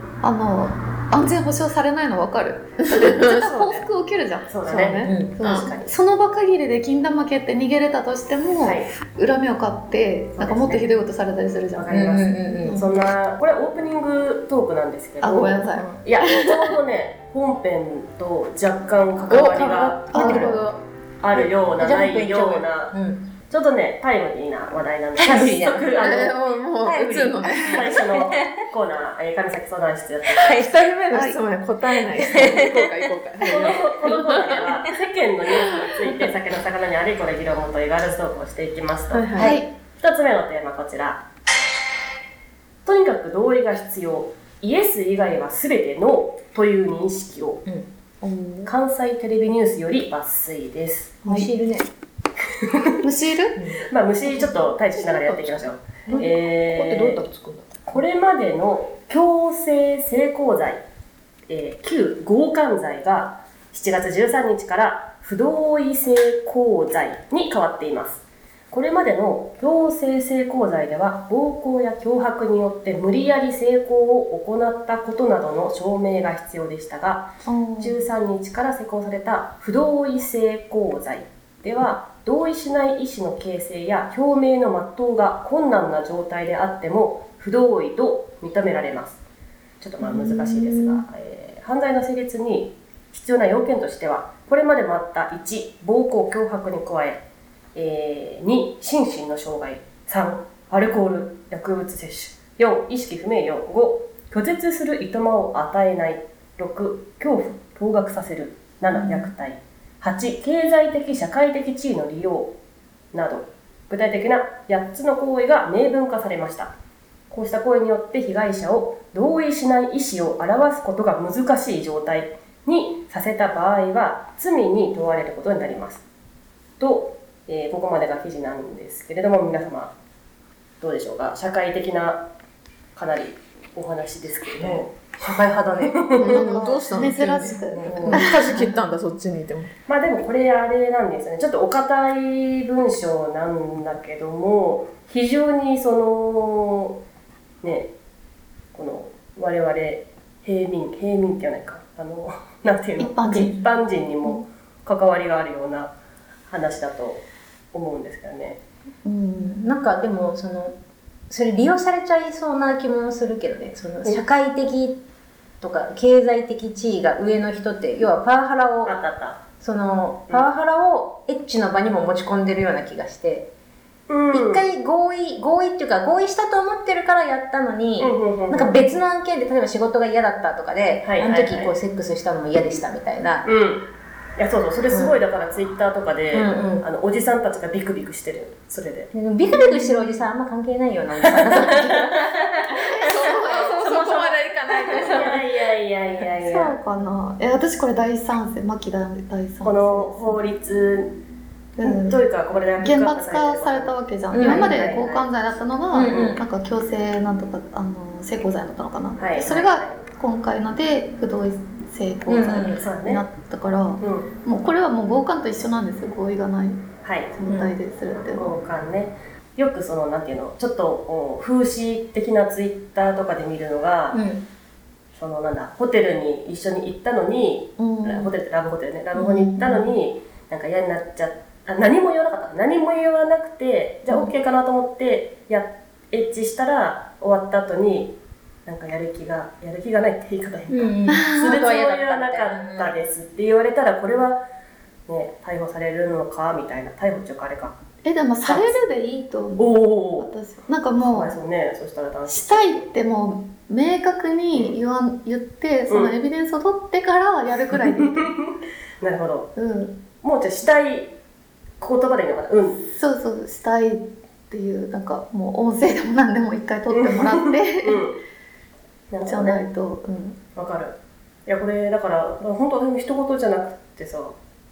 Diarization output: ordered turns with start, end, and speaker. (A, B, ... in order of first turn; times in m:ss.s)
0:00.2-0:04.5 A
0:02.8-0:03.8 B
0:04.5-0:05.9 C
0:04.7-0:05.7 B
0:04.8-0:05.3 D
0:05.2-0:11.9 A
0:08.6-0:08.9 C
0:10.4-0:10.8 C
0:11.8-0:20.6 C
0:11.9-0:12.8 D
0:15.2-0:16.0 A
0:19.3-0:20.8 B
0:20.1-0:20.6 A
0:20.1-0:20.6 D
0:21.2-0:23.0 C
0:21.8-0:23.3 D
0:23.5-0:30.6 C
0:25.2-0:25.9 D
0:26.0-0:28.0 B
0:26.8-0:28.6 D
0:30.4-0:30.7 D
0:30.4-0:34.7 B
0:31.1-0:31.4 A
0:32.1-0:33.1 D
0:33.4-0:39.4 C
0:35.6-0:36.0 B
0:39.1-0:39.6 B
0:39.4-0:39.6 D
0:39.4-0:39.7 A
0:40.0-0:41.2 C
0:42.8-0:47.6 C
0:48.2-0:48.7 A
0:48.7-0:51.2 C
0:51.2-0:51.5 A
0:51.3-0:51.9 D
0:52.6-0:52.9 C
0:53.0-0:53.6 A
0:53.9-0:57.2 C
0:56.1-0:57.8 D
0:57.9-1:00.8 C
1:01.5-1:29.2 C
1:17.5-1:18.0 A
1:29.8-1:37.2 C
1:30.0-1:31.0 A
1:37.8-1:52.5 C
1:53.1-1:56.7 C
1:57.3-2:06.0 C
2:06.8-2:09.9 C
2:10.8-2:12.3 C
2:13.0-2:16.6 C
2:14.6-2:16.2 D
2:16.2-2:19.7 B
2:16.2-2:18.7 A
2:17.7-2:18.2 D
2:17.8-2:18.3 C
2:19.9-2:27.0 C
2:27.6-2:27.9 C
2:28.7-2:35.9 C
2:33.0-2:33.6 A
2:36.5-2:38.6 C
2:39.0-2:39.6 A
2:39.4-2:40.8 D
2:41.3-2:45.0 D
2:45.6-2:48.9 D
2:48.8-2:49.4 C
2:49.6-2:53.5 D
2:54.1-2:54.6 C
2:54.3-3:03.5 D
2:58.0-2:58.8 C
3:01.0-3:01.8 C
3:03.4-3:03.9 C
3:04.4-3:09.1 C
3:04.9-3:05.2 D
3:06.3-3:06.8 D
3:09.1-3:15.4 D
3:09.6-3:10.0 A
3:11.2-3:12.2 C
3:12.7-3:14.2 A
3:13.0-3:15.4 B
3:14.9-3:16.8 C
3:16.4-3:20.4 A
3:19.6-3:21.2 C
3:21.8-3:22.2 A
3:21.8-3:25.3 C
3:22.8-3:36.8 A
3:24.3-3:24.8 D
3:25.9-3:26.4 D
3:26.0-3:26.4 C
3:29.2-3:30.0 C
3:32.3-3:32.8 D
3:32.7-3:33.2 C
3:34.0-3:34.3 C
3:37.0-3:37.4 C
3:37.4-3:38.6 A
3:37.5-3:37.7 D
3:38.3-3:44.2 C
3:44.1-3:44.4 D
3:45.2-3:58.2 C
3:47.8-3:48.3 A
3:49.2-3:49.8 A
3:58.7-4:04.4 C
4:00.7-4:03.0 D
4:01.1-4:01.6 A
4:05.1-4:07.8 C
4:08.0-4:11.4 A
4:08.5-4:08.8 C
4:09.6-4:10.3 C
4:11.0-4:12.9 C
4:12.3-4:18.3 A
4:15.9-4:16.1 C
4:17.7-4:19.5 C
4:19.6-4:20.0 A
4:20.2-4:21.1 C
4:21.8-4:22.9 C
4:22.9-4:28.0 A
4:26.9-4:28.2 C
4:29.1-4:29.6 C
4:29.3-4:30.4 A
4:30.6-4:34.4 C